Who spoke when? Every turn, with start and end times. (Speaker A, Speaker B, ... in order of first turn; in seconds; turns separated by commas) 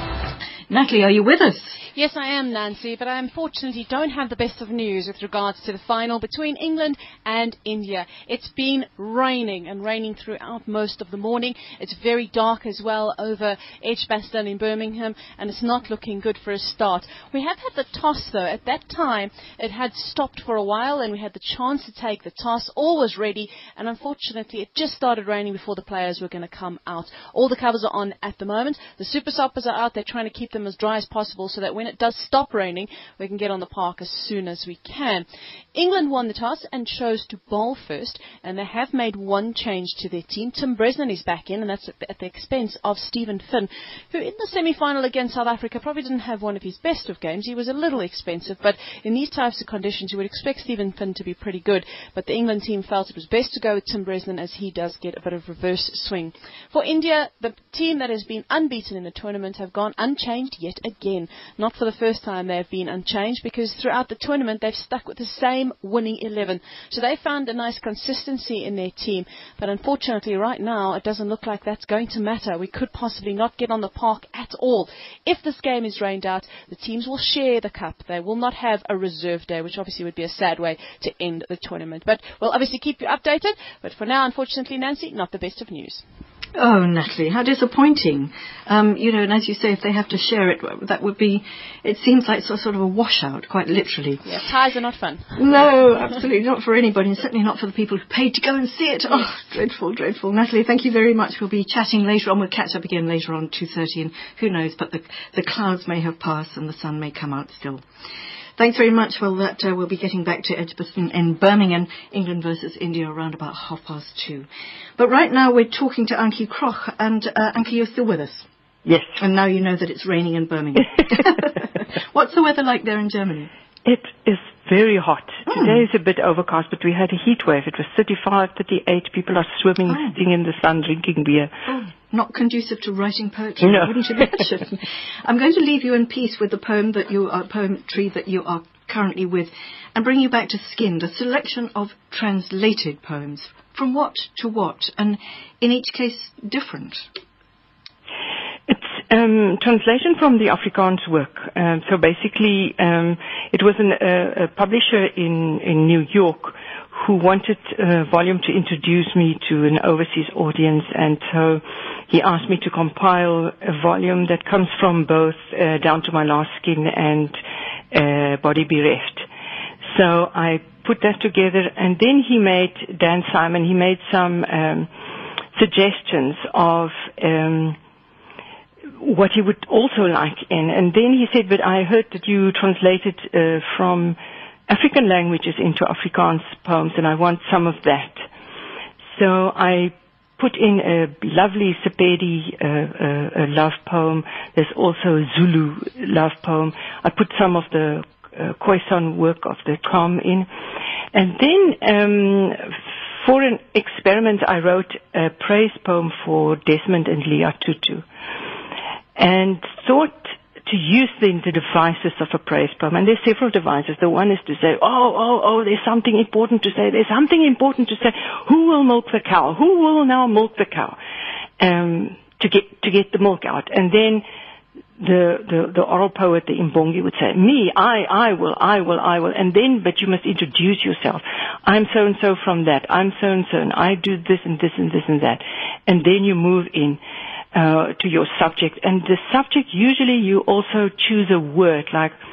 Speaker A: 0.7-1.8, Speaker B: 1.9-86.0, Speaker A: 86.6-94.4, Speaker B: 94.2-95.5, Speaker A: 95.4-107.8, Speaker A: 108.6-114.5, Speaker A: 115.0-118.5, Speaker C: 118.9-119.2, Speaker A: 119.2-123.5, Speaker C: 123.8-131.6, Speaker A: 125.5-125.8, Speaker A: 129.9-130.2, Speaker A: 131.7-147.1, Speaker C: 133.6-133.9, Speaker C: 148.7-167.4, Speaker C: 167.9-169.3, Speaker C: 169.9-174.9, Speaker C: 175.5-177.8, Speaker C: 179.0-184.2, Speaker C: 184.7-188.2, Speaker C: 189.1-200.5, Speaker C: 201.1-208.1, Speaker C: 209.2-221.0, Speaker C: 221.6-224.2, Speaker C: 225.0-237.0, Speaker C: 237.5-242.2